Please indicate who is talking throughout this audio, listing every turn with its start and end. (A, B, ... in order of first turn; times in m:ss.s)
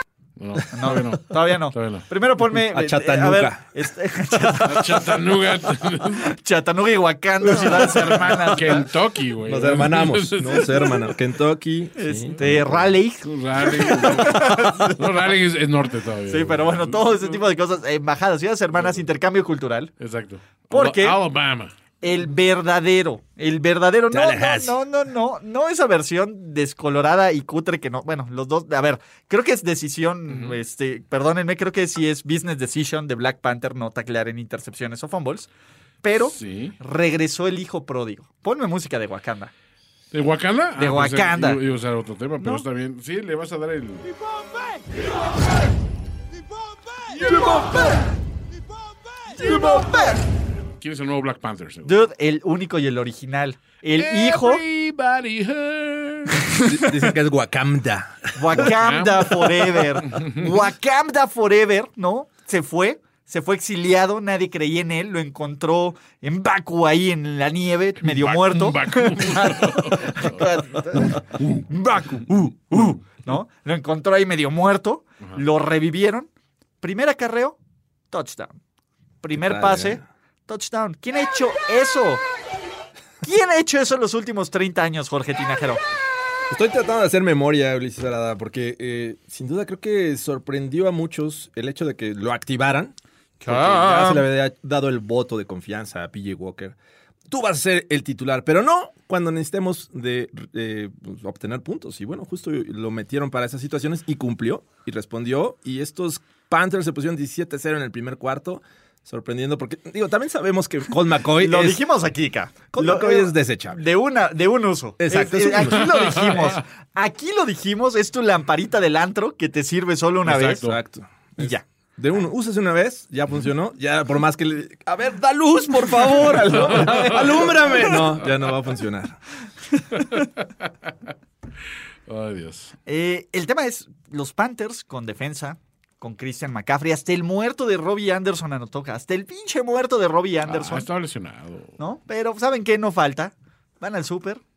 0:00.4-0:02.0 A
0:00.7-0:05.2 B
0:02.5-0:03.6 C
0:04.6-0:06.3 A
0:06.2-0:08.8 B
0:07.5-0:11.1 A
0:09.4-0:12.9 C
0:12.0-0:15.0 B
0:13.2-0:17.4 A
0:16.3-0:19.9 B
0:20.0-0:21.7 A
0:20.7-0:21.2 B
0:22.0-0:35.5 B
0:24.1-0:24.8 C
0:30.3-0:30.6 A
0:36.0-0:39.5 B
0:36.2-0:36.8 A
0:40.1-0:44.0 A
0:40.8-0:41.6 B
0:47.2-0:47.6 A
0:47.2-0:48.0 B
0:47.3-0:47.8 C
0:49.4-0:50.2 B
0:49.4-0:49.8 C
0:50.8-0:52.0 A
0:51.8-0:54.6 B
0:54.0-0:56.5 A
0:56.6-0:58.7 C
0:58.3-1:16.3 B
0:58.6-1:00.5 A
1:08.0-1:11.6 A
1:16.8-1:17.6 B
1:18.1-1:18.6 B
1:19.2-1:22.2 B
1:19.3-1:20.0 C
1:23.2-1:25.8 B
1:26.5-1:36.8 C
1:33.4-1:34.3 B
1:37.3-1:51.8 C
1:51.4-2:00.6 B
1:52.7-1:53.8 C
1:55.0-1:56.2 C
1:55.8-1:56.6 A
2:00.2-2:00.8 A
2:00.6-2:09.2 C
2:01.4-2:01.6 B
2:06.5-2:07.2 B
2:06.6-2:07.2 A
2:09.9-2:10.6 A
2:12.1-2:12.7 A
2:12.9-2:20.9 B
2:20.4-2:21.7 A
2:21.8-2:24.4 B